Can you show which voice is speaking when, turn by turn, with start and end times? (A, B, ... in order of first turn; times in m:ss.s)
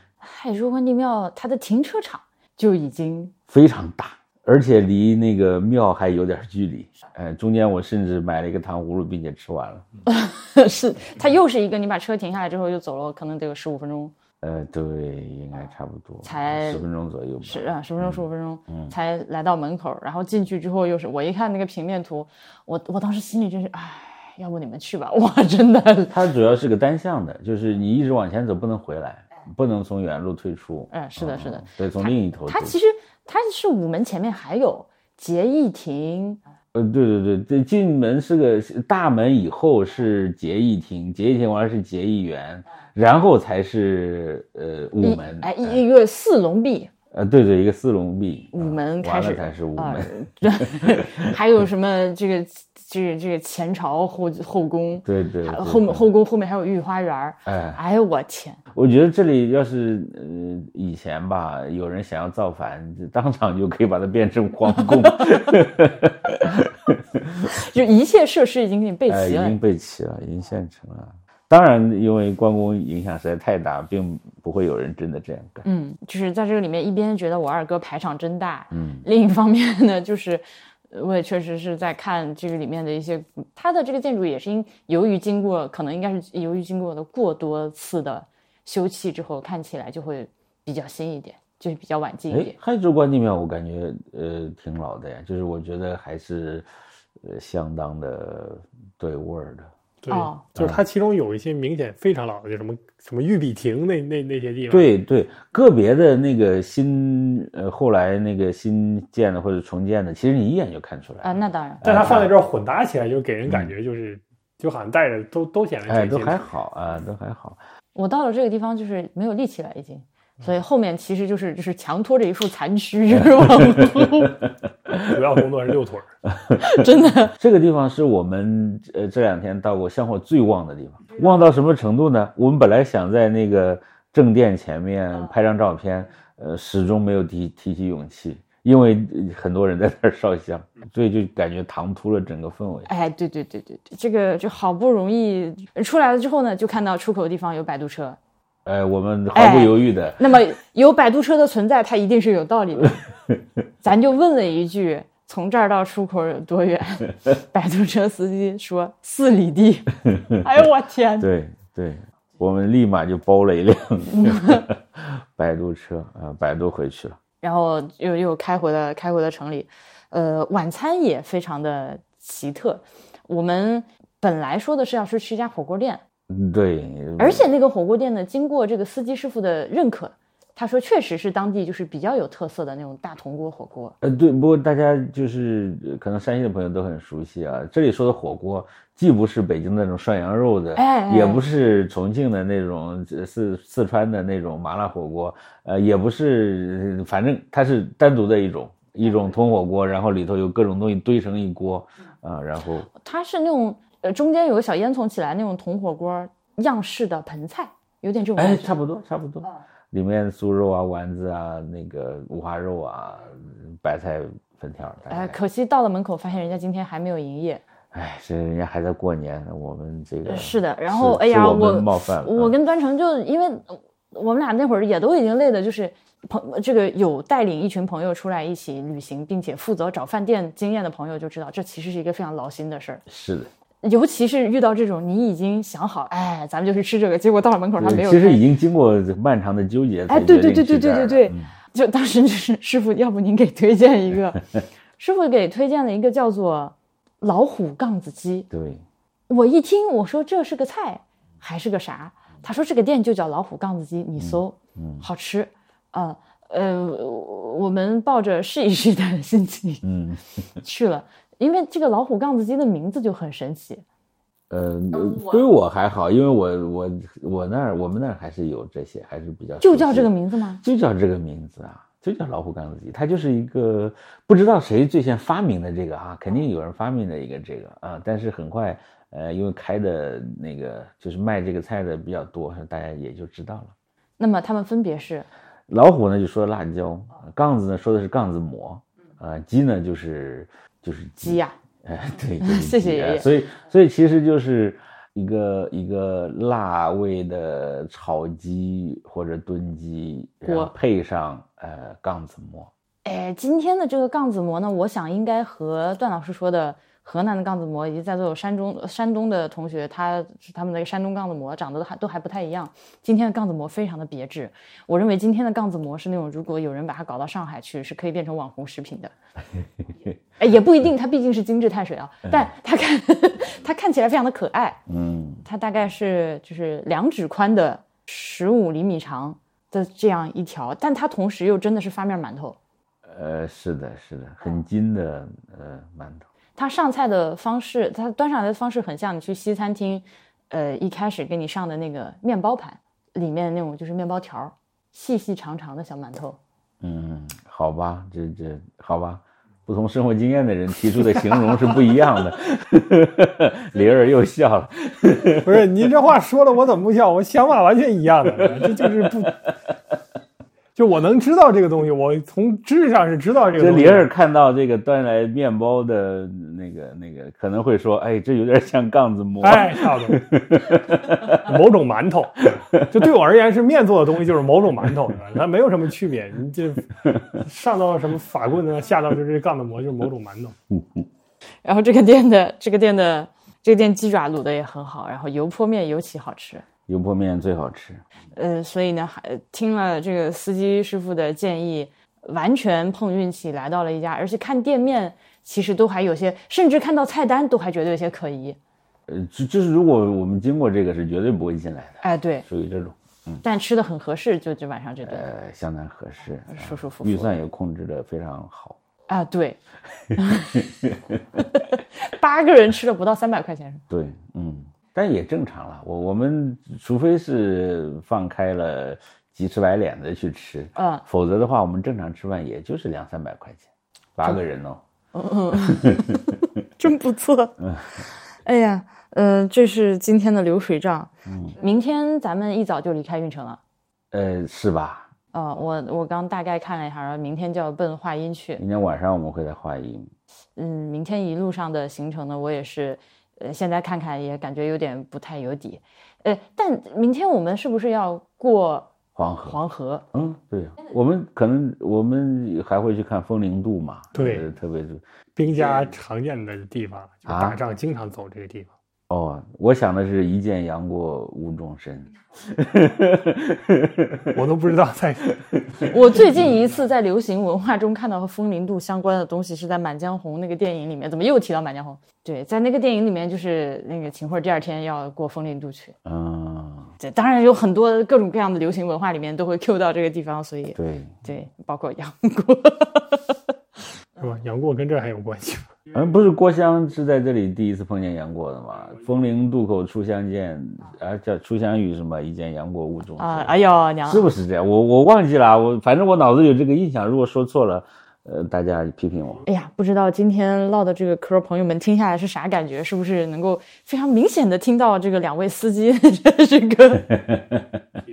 0:00.2-0:03.3 A
0:03.5-0:09.9 B
0:10.1-0:14.1 A
0:14.4-0:18.9 B
0:16.2-0:16.8 A
0:17.4-0:26.2 A
0:26.1-0:32.8 B
0:30.9-0:36.4 A
0:36.7-0:45.8 B
0:45.0-0:46.9 A
0:47.1-0:51.3 B
0:48.5-0:58.6 A
0:55.0-0:56.0 B
0:57.4-0:57.8 B
0:58.7-1:07.6 B
1:07.5-1:09.6 A
1:09.1-1:15.6 B
1:15.6-1:32.6 A
1:18.7-1:19.0 B
1:32.3-1:36.7 B
1:37.2-1:39.7 B
1:40.0-1:44.9 C
1:40.1-1:40.4 A
1:44.7-1:52.3 B
1:51.2-1:51.8 A
1:51.8-1:56.5 C
1:55.9-1:57.6 B
1:58.0-2:04.4 A
2:03.4-2:04.1 B
2:04.9-2:05.2 B
2:05.0-2:06.1 C
2:06.2-2:22.9 B
2:06.6-2:07.4 A
2:22.9-2:28.2 A
2:28.6-2:30.3 B
2:29.3-2:33.0 A
2:33.8-2:41.3 A
2:40.1-2:40.4 B
2:41.2-2:47.2 B
2:44.1-2:44.6 A
2:47.4-2:56.0 A
2:56.3-2:57.5 B
2:57.2-3:04.0 A
3:04.0-3:22.9 B
3:10.8-3:11.4 A
3:23.0-3:28.8 A
3:28.4-3:35.4 B
3:35.1-3:37.6 A
3:37.9-3:42.6 B
3:40.3-3:53.0 A
3:53.1-3:53.5 B
3:53.8-3:58.4 A
3:57.8-4:01.5 B
4:00.1-4:04.4 A
4:05.0-4:08.5 A
4:08.5-4:08.8 B
4:09.3-4:19.8 A
4:14.2-4:15.1 B
4:19.8-4:20.2 B
4:20.6-4:23.8 A
4:24.5-4:43.7 B
4:29.6-4:30.6 A
4:44.2-4:45.3 A
4:45.7-5:02.7 B
4:51.2-4:51.6 A
4:52.4-4:53.3 A
5:00.4-5:00.7 A
5:03.0-5:19.1 A
5:20.4-5:24.8 A
5:24.9-5:25.4 B
5:25.4-5:32.6 A
5:33.0-5:36.3 B
5:36.6-5:46.4 A
5:46.8-5:55.7 B
5:55.4-5:59.4 C
5:58.4-5:59.5 B
6:00.8-6:04.1 C
6:03.5-6:11.5 B
6:09.4-6:10.2 C
6:11.2-6:20.6 C
6:12.5-6:13.0 B
6:20.7-6:21.0 B
6:21.6-6:26.7 A
6:26.9-6:28.0 B
6:28.4-6:38.6 A
6:39.1-6:43.4 B
6:42.0-6:42.5 A
6:43.4-6:45.3 A
6:45.0-6:48.8 B
6:46.5-6:47.3 A
6:49.1-6:49.6 A
6:50.0-6:51.4 B
6:50.2-6:50.6 A
6:51.5-6:53.8 A
6:53.9-7:04.8 B
7:00.8-7:01.0 A
7:05.1-7:13.6 A
7:05.5-7:06.3 B
7:07.6-7:07.9 B
7:11.3-7:11.6 B
7:14.1-7:15.1 B
7:15.3-7:18.6 A
7:18.6-7:20.1 B
7:20.6-7:28.9 A
7:29.2-7:29.6 B
7:29.4-7:30.0 A
7:30.1-7:35.0 B
7:34.2-7:34.5 C
7:35.4-7:38.7 C
7:37.3-7:37.6 B
7:39.1-7:44.4 B
7:44.3-7:45.3 C
7:45.4-7:45.9 B
7:45.9-7:56.0 A
7:56.0-7:56.9 B
7:57.0-8:03.4 A
8:00.8-8:01.1 B
8:04.2-8:05.8 C
8:05.9-8:13.6 B
8:13.2-8:14.3 A
8:14.1-8:19.4 B
8:19.5-8:27.2 A
8:27.1-8:27.8 B